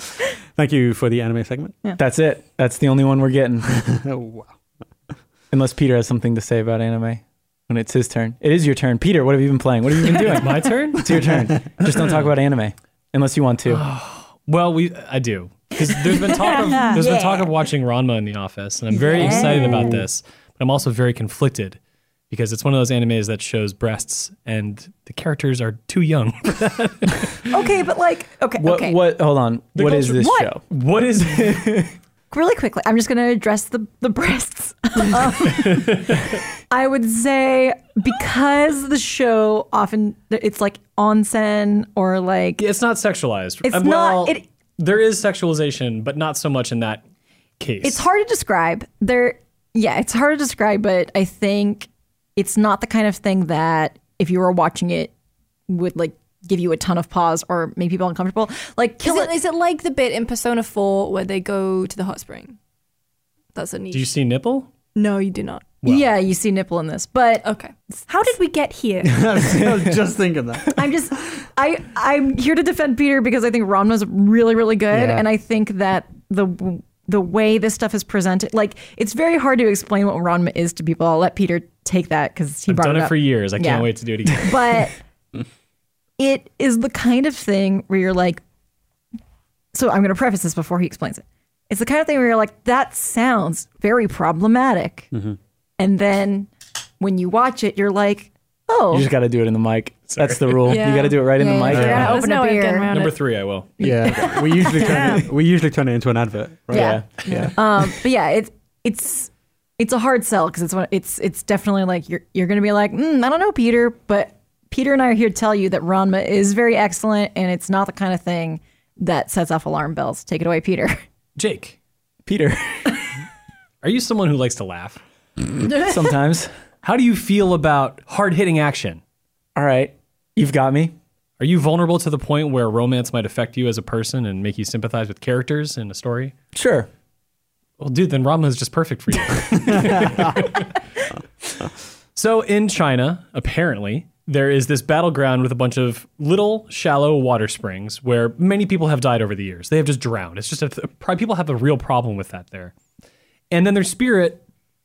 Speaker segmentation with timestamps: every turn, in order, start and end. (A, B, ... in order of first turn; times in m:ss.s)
0:00.6-0:01.8 A
0:02.0-0:03.7 B
0:03.7-0:04.6 A
0:05.5-0:13.8 B
0:10.1-0:11.3 C
0:11.8-0:12.3 C
0:13.7-0:21.8 C
0:16.1-0:17.5 D
0:18.9-0:20.0 D
0:22.3-0:27.5 C
0:27.5-0:29.0 D
0:28.6-0:30.6 B
0:29.8-0:31.9 C
0:30.1-0:30.5 D
0:31.2-0:31.9 B
0:32.3-0:42.6 D
0:35.5-0:36.2 C
0:42.6-0:47.0 C
0:43.6-0:44.4 D
0:47.6-0:48.0 C
0:47.8-0:55.1 D
0:55.7-0:59.3 D
0:59.0-1:02.6 E
1:03.6-1:04.1 E
1:03.9-1:04.7 C
1:05.0-1:05.8 E
1:05.8-1:06.1 C
1:05.8-1:07.5 D
1:07.4-1:09.4 E
1:09.0-1:10.8 A
1:10.7-1:25.0 D
1:14.9-1:15.2 A
1:22.7-1:24.8 C
1:26.2-1:28.4 D
1:29.7-1:35.1 D
1:35.1-1:35.4 A
1:35.8-1:39.1 D
1:38.9-1:42.2 B
1:40.1-1:40.8 C
1:40.7-1:43.2 E
1:41.2-1:43.0 D
1:41.7-1:42.1 A
1:41.8-1:42.2 C
1:42.9-1:43.9 C
1:43.8-1:47.5 A
1:44.1-1:45.3 E
1:46.7-1:47.5 B
1:46.7-2:01.0 D
2:01.4-2:01.8 C
2:02.3-2:03.0 B
2:03.8-2:05.0 C
2:05.8-2:06.5 B
2:06.8-2:09.0 C
2:09.6-2:11.0 B
2:11.4-2:16.3 C
2:16.5-2:16.9 B
2:17.8-2:20.7 C
2:19.9-2:20.2 A
2:22.2-2:32.7 C
2:33.5-2:34.4 C